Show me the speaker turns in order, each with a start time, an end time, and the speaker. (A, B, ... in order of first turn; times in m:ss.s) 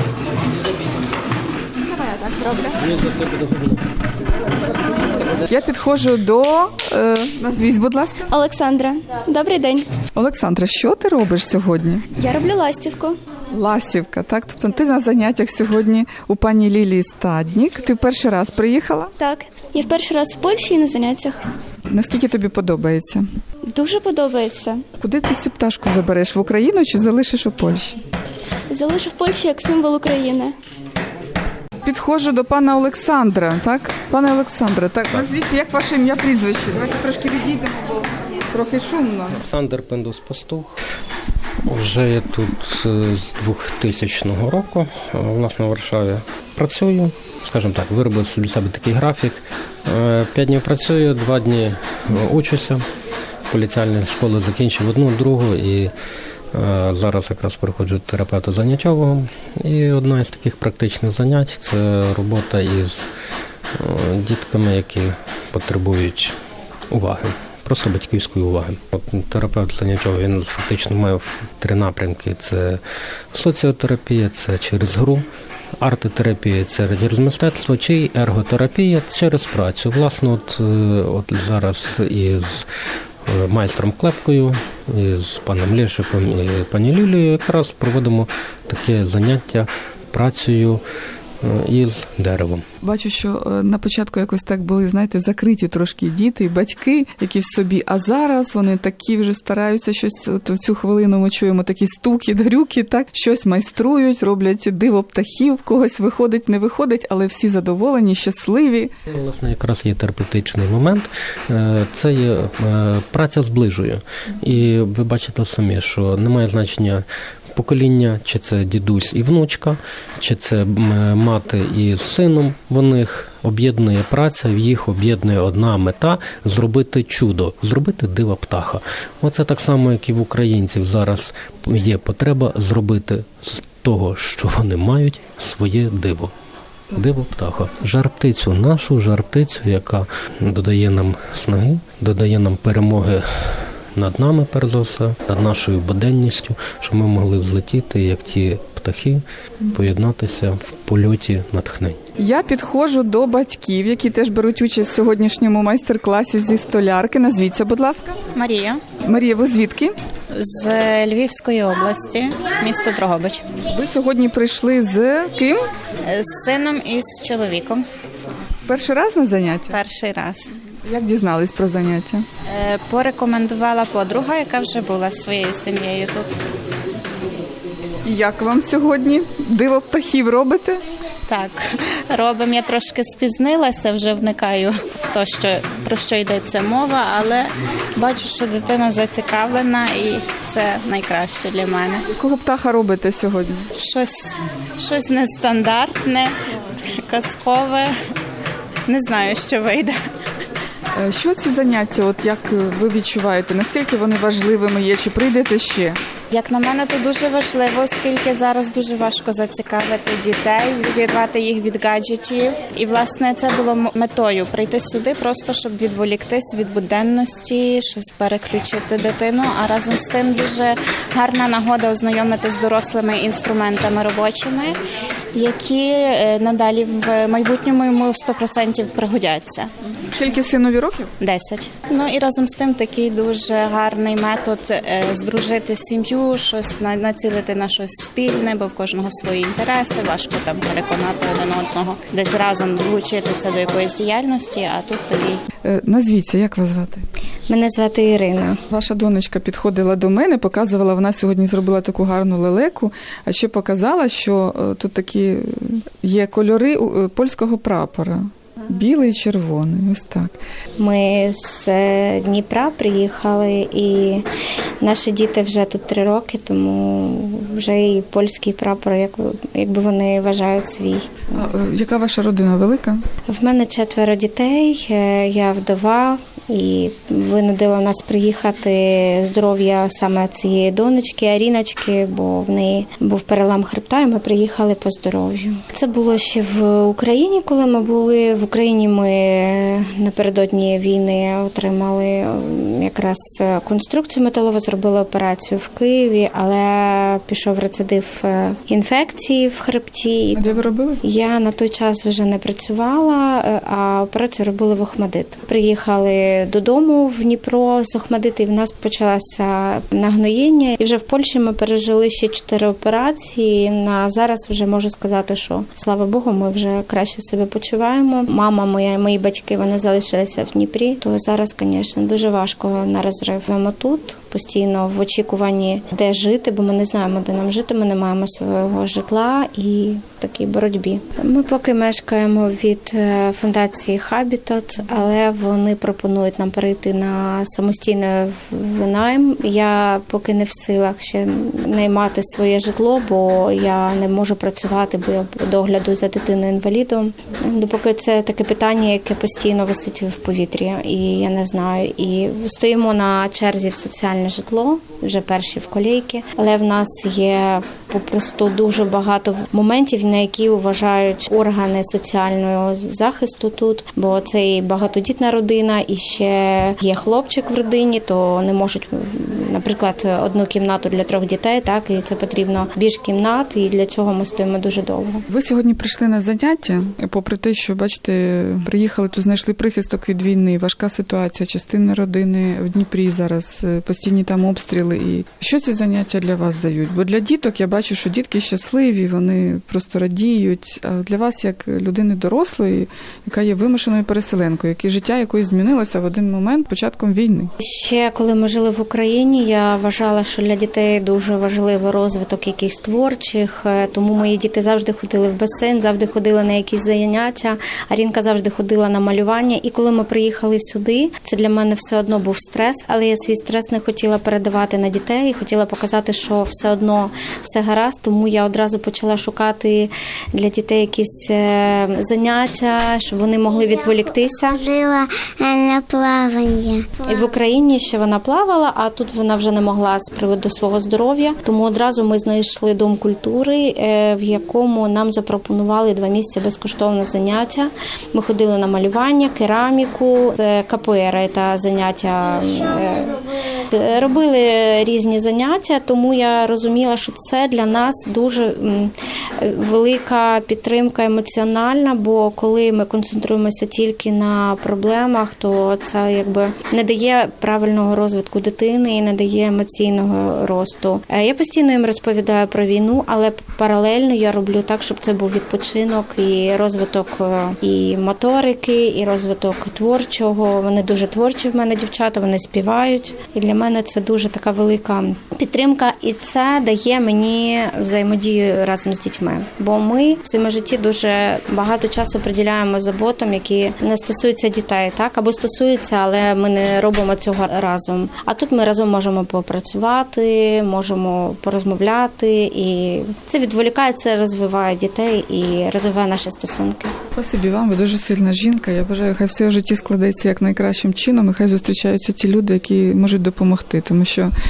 0:02.0-0:02.8 A
0:02.9-0:03.8 B
0:05.3-0:08.3 A
0:08.3-0:09.9 C
0:10.1-0:12.1 A
0:12.2-0:13.2 C
0:13.5-0:19.1 A
0:19.2-0:21.5 C
0:21.9-0:23.3 A
0:23.7-0:24.8 C
0:25.0-0:28.0 A
0:28.7-0:30.6 C
0:31.8-0:39.4 A
0:39.3-0:40.8 B
0:41.6-0:52.9 B
0:53.5-0:55.9 B
0:56.5-1:03.1 B
1:03.7-1:06.4 B
1:06.9-1:15.3 B
1:15.8-1:22.7 B
1:23.3-1:30.8 B
1:31.4-1:32.6 B
1:32.8-1:48.9 A
1:49.1-2:16.3 B
2:16.9-2:32.0 B
2:32.2-2:38.2 A
2:38.3-2:38.8 D
2:39.0-2:40.0 A
2:40.3-2:43.4 D
2:43.6-2:45.6 A
2:46.0-2:47.8 D
2:48.6-2:49.8 A
2:49.7-2:50.6 D
2:50.8-2:52.3 A
2:52.5-2:56.4 D
2:58.0-3:00.8 A
3:01.3-3:12.0 D
3:12.1-3:13.7 A
3:13.8-3:17.9 D
3:18.9-3:20.0 D
3:21.0-3:26.0 A
3:26.3-3:44.8 D
3:45.3-3:49.7 D
3:50.1-3:51.1 A
3:51.2-4:05.4 D
4:05.6-4:07.0 A
4:07.5-4:08.6 E
4:08.7-4:20.4 A
4:20.8-4:24.3 E
4:24.8-4:31.2 E
4:31.3-4:33.0 A
4:33.3-5:00.4 E
5:00.4-5:01.0 A
5:01.0-6:15.2 E
6:15.3-6:37.5 A
6:37.6-7:04.6 E
7:03.5-7:07.3 F
7:07.1-8:16.9 E
8:17.2-8:24.3 A